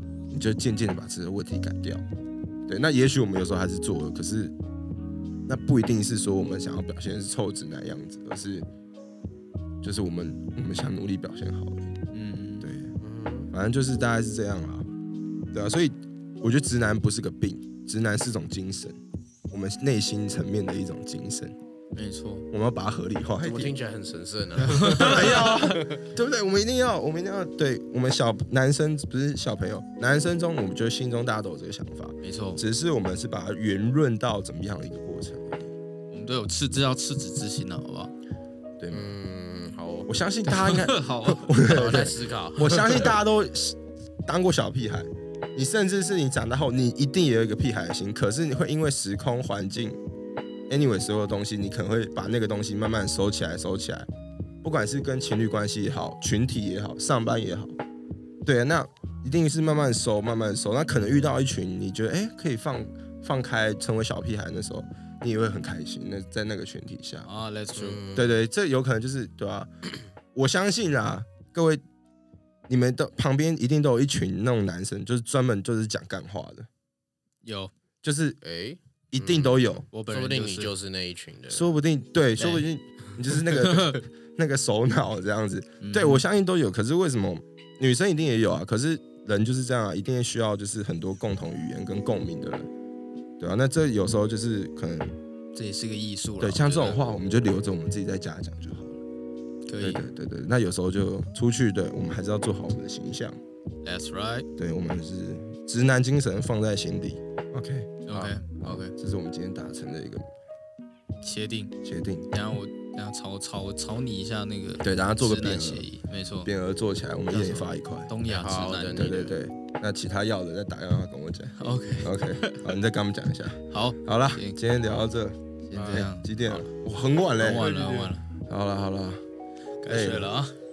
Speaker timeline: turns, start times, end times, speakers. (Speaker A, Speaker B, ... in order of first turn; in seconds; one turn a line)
Speaker A: 0.3-2.0
Speaker A: 2.7-4.5
Speaker A: 5.5-8.7
Speaker A: 9.8-11.9
Speaker B: 12.1-12.7
Speaker A: 12.6-12.9
Speaker C: 13.0-13.5
Speaker A: 13.5-14.9
Speaker A: 15.5-19.0
Speaker A: 19.5-21.6
Speaker B: 21.9-22.5
Speaker A: 22.5-23.7
Speaker C: 23.4-26.0
Speaker B: 24.6-25.6
Speaker A: 24.8-35.7
Speaker B: 32.2-32.6
Speaker B: 36.1-38.1
Speaker A: 38.8-39.1
Speaker C: 38.9-40.1
Speaker A: 40.1-50.0
Speaker B: 40.5-42.1
Speaker C: 41.6-43.1
Speaker A: 50.7-54.1
Speaker A: 54.6-57.8
Speaker A: 58.4-67.3
Speaker B: 67.2-68.0
Speaker C: 67.7-68.4
Speaker A: 68.2-69.7
Speaker A: 70.3-71.8
Speaker A: 72.7-76.7
Speaker B: 77.4-77.7
Speaker A: 78.0-78.4
Speaker C: 78.4-81.7
Speaker A: 79.1-79.9
Speaker B: 79.9-80.7
Speaker A: 81.5-92.7
Speaker B: 82.4-82.7
Speaker B: 83.6-84.0
Speaker B: 85.8-86.2
Speaker A: 93.4-95.2
Speaker B: 95.5-97.0
Speaker A: 96.4-99.0
Speaker B: 99.7-100.0
Speaker A: 99.8-103.4
Speaker B: 103.8-104.5
Speaker A: 104.6-110.3
Speaker B: 108.1-108.9
Speaker B: 111.2-111.7
Speaker A: 111.8-112.3
Speaker B: 112.3-116.5
Speaker A: 114.8-115.9
Speaker A: 116.4-118.1
Speaker B: 117.3-119.1
Speaker C: 118.3-119.4
Speaker A: 119.0-125.4
Speaker B: 121.6-122.7
Speaker B: 123.7-124.6
Speaker B: 125.7-126.6
Speaker C: 125.7-126.1
Speaker A: 125.9-129.2
Speaker B: 127.4-128.2
Speaker B: 129.8-130.6
Speaker A: 129.9-130.3